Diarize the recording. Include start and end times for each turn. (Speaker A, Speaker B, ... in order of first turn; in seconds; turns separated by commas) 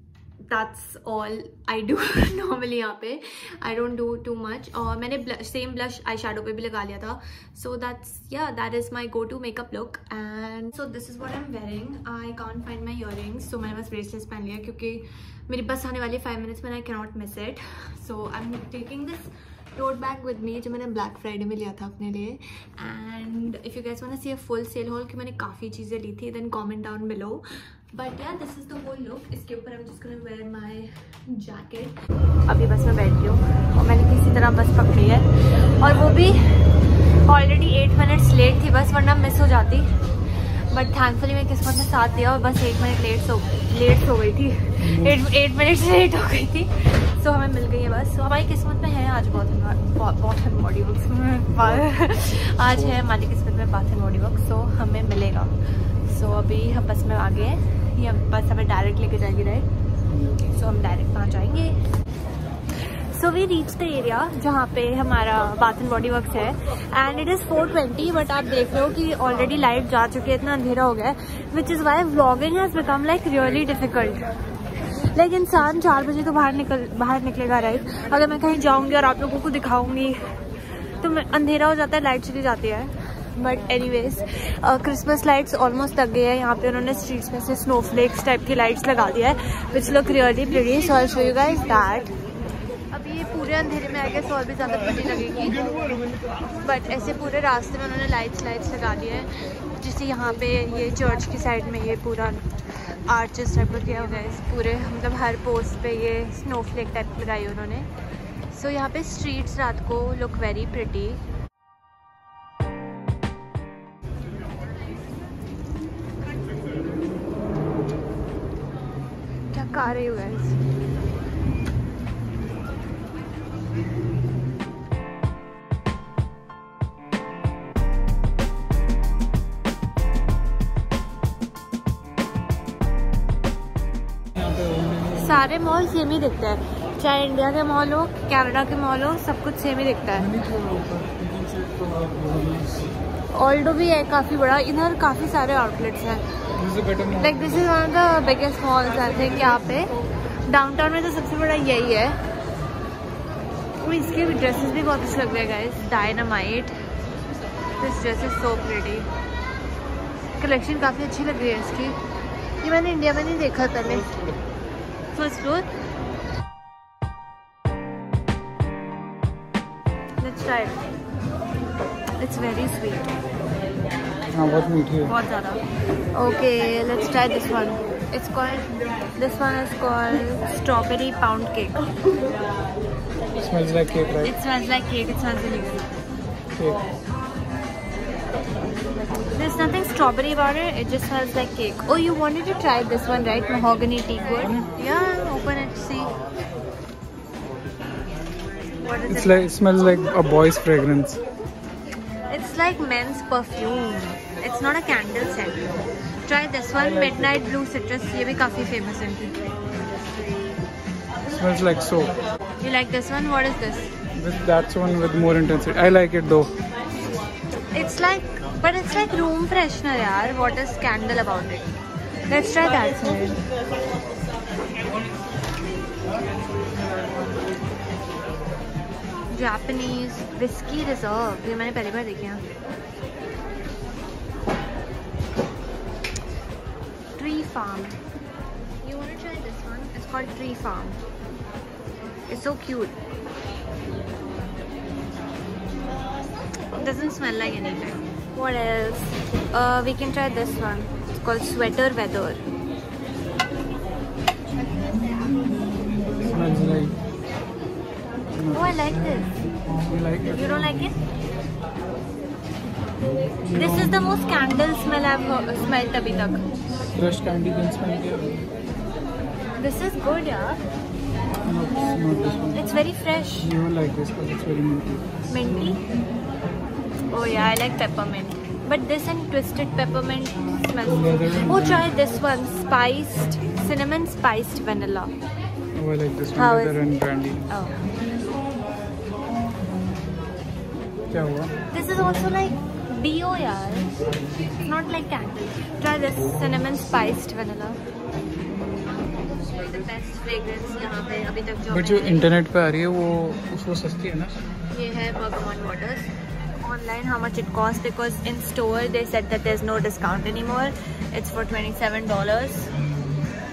Speaker A: 0.4-39.9, Speaker A: 40.7-59.7, Speaker B: 44.8-45.2, Speaker B: 60.1-60.4, Speaker A: 60.3-61.7, Speaker A: 62.8-74.3, Speaker A: 75.1-80.2, Speaker A: 81.0-92.1, Speaker A: 92.9-95.6, Speaker A: 96.6-107.9, Speaker A: 108.5-111.2, Speaker A: 119.5-120.6, Speaker B: 134.3-135.5, Speaker A: 135.1-140.3, Speaker B: 140.2-142.9, Speaker A: 143.3-146.2, Speaker B: 146.6-147.6, Speaker A: 147.2-149.9, Speaker A: 150.4-152.2, Speaker A: 153.8-156.7, Speaker A: 157.8-159.1, Speaker A: 160.3-162.0, Speaker A: 162.6-164.1, Speaker A: 165.1-165.7, Speaker A: 170.2-170.8, Speaker A: 172.2-173.1, Speaker B: 174.3-175.1, Speaker A: 175.1-175.6, Speaker A: 176.1-181.8, Speaker B: 183.4-184.3, Speaker A: 184.2-185.9, Speaker B: 186.5-186.8, Speaker A: 189.3-196.1, Speaker B: 194.4-194.7, Speaker A: 198.8-199.5, Speaker B: 199.1-201.2, Speaker A: 202.3-205.6, Speaker A: 206.2-209.5, Speaker B: 211.2-212.1, Speaker A: 212.6-213.9, Speaker B: 214.1-216.6, Speaker A: 217.7-221.8, Speaker A: 222.3-223.4, Speaker A: 229.3-232.4, Speaker A: 237.2-238.0, Speaker A: 238.8-241.0, Speaker A: 242.3-243.0, Speaker A: 246.7-252.4, Speaker B: 256.2-257.0, Speaker B: 258.3-259.2, Speaker A: 258.5-259.3, Speaker B: 259.8-260.9, Speaker A: 260.3-260.9, Speaker B: 263.4-264.0, Speaker A: 263.5-266.4, Speaker B: 266.9-268.4, Speaker A: 269.6-270.6, Speaker B: 271.4-272.8, Speaker A: 272.5-273.5, Speaker B: 273.4-275.0, Speaker A: 275.3-275.8, Speaker A: 277.1-285.1, Speaker B: 280.9-281.9, Speaker B: 285.7-287.5, Speaker A: 286.4-286.8, Speaker A: 287.5-287.8, Speaker B: 291.1-291.5, Speaker A: 291.7-293.9, Speaker A: 294.6-297.8, Speaker A: 299.3-302.2, Speaker B: 301.7-304.4, Speaker A: 304.7-312.7